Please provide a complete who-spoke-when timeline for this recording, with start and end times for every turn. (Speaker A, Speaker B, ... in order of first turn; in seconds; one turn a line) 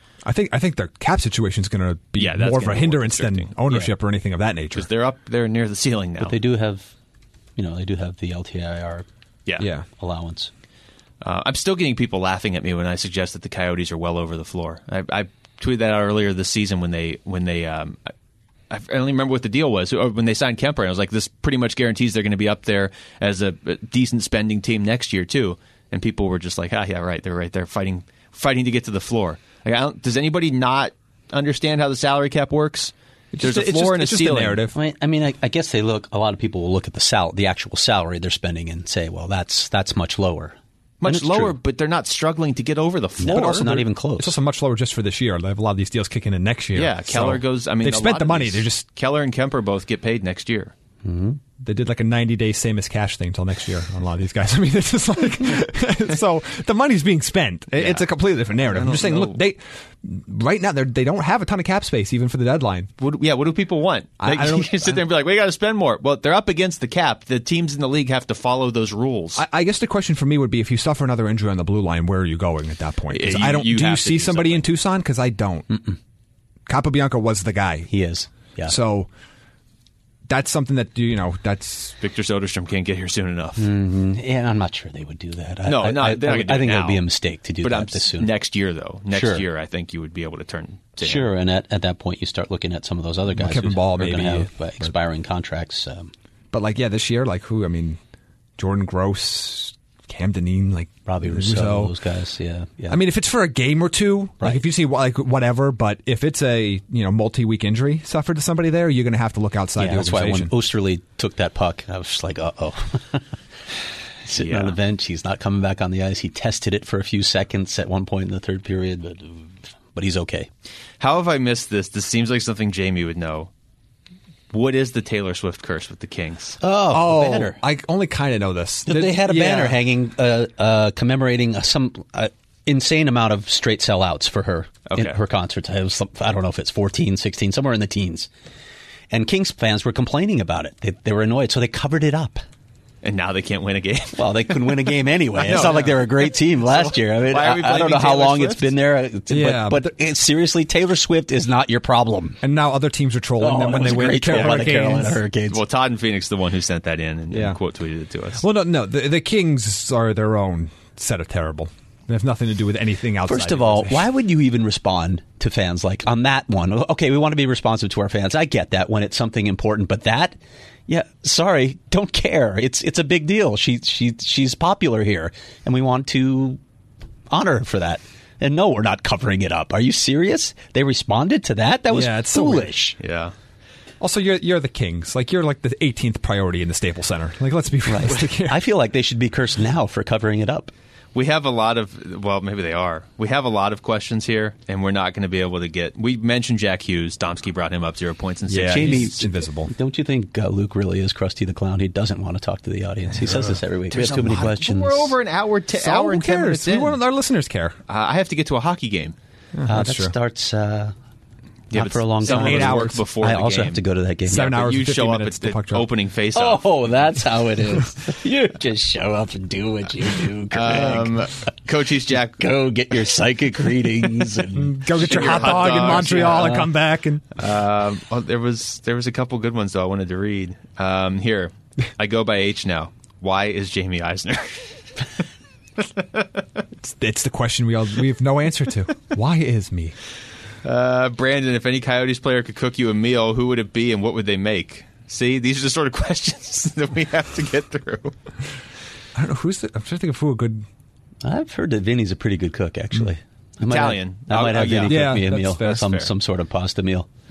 Speaker A: 0.2-4.9
Speaker B: 2.1-3.9
Speaker B: 4.7-6.3
Speaker C: 6.2-6.9
Speaker C: 7.6-9.1
Speaker A: 9.6-9.9
Speaker C: 9.9-10.5
Speaker B: 11.2-18.1
Speaker B: 18.7-34.6
Speaker A: 33.3-34.8
Speaker C: 34.7-41.5
Speaker B: 41.0-43.7
Speaker C: 43.2-44.4
Speaker A: 43.2-48.9
Speaker B: 46.7-50.7
Speaker C: 51.0-51.4
Speaker A: 51.6-62.9
Speaker B: 57.8-58.0
Speaker B: 58.6-59.4
Speaker B: 63.0-69.4
Speaker A: 64.2-65.0
Speaker A: 69.3-75.7
Speaker B: 73.1-74.7
Speaker C: 75.7-76.0
Speaker A: 76.7-77.9
Speaker C: 77.9-78.7
Speaker A: 78.7-79.1
Speaker A: 80.3-82.0
Speaker B: 82.0-83.7
Speaker C: 83.6-88.3
Speaker B: 85.6-87.1
Speaker B: 87.6-91.3
Speaker C: 89.1-89.4
Speaker C: 91.0-96.1
Speaker A: 93.4-94.9
Speaker A: 96.5-98.0
Speaker A: 98.6-101.9
Speaker C: 101.1-103.0
Speaker A: 102.9-110.5
Speaker C: 109.8-113.3
Speaker C: 114.2-120.5
Speaker B: 114.3-114.8
Speaker B: 121.0-123.5
Speaker B: 124.5-126.6
Speaker C: 126.6-127.6
Speaker A: 126.9-129.8
Speaker C: 128.9-138.3
Speaker B: 134.9-135.2
Speaker C: 139.1-142.4
Speaker B: 143.0-148.8
Speaker C: 144.2-152.4
Speaker A: 149.3-149.9
Speaker A: 152.4-155.2
Speaker C: 153.4-155.6
Speaker B: 154.0-154.7
Speaker B: 155.5-158.4
Speaker A: 157.3-157.6
Speaker A: 158.4-164.1
Speaker C: 163.3-170.4
Speaker C: 170.9-176.6
Speaker C: 177.3-183.0
Speaker A: 181.9-182.8
Speaker B: 183.0-183.3
Speaker A: 184.0-188.6
Speaker C: 187.9-190.7
Speaker B: 191.1-199.2
Speaker A: 198.5-199.7
Speaker C: 198.6-205.1
Speaker A: 203.2-203.6
Speaker B: 203.9-207.0
Speaker A: 205.7-207.8
Speaker B: 207.9-209.1
Speaker A: 209.6-210.1
Speaker C: 209.7-210.9
Speaker B: 211.7-216.9
Speaker C: 211.7-214.5
Speaker A: 212.2-213.0
Speaker A: 214.3-215.9
Speaker C: 216.3-221.1
Speaker B: 220.5-222.5
Speaker C: 222.4-226.7
Speaker A: 224.6-227.3
Speaker B: 224.9-226.6
Speaker B: 227.3-234.8
Speaker B: 235.8-236.2
Speaker A: 236.8-239.9
Speaker B: 240.6-248.2
Speaker A: 249.2-250.7
Speaker C: 251.2-257.1
Speaker B: 253.6-256.1
Speaker A: 254.7-255.9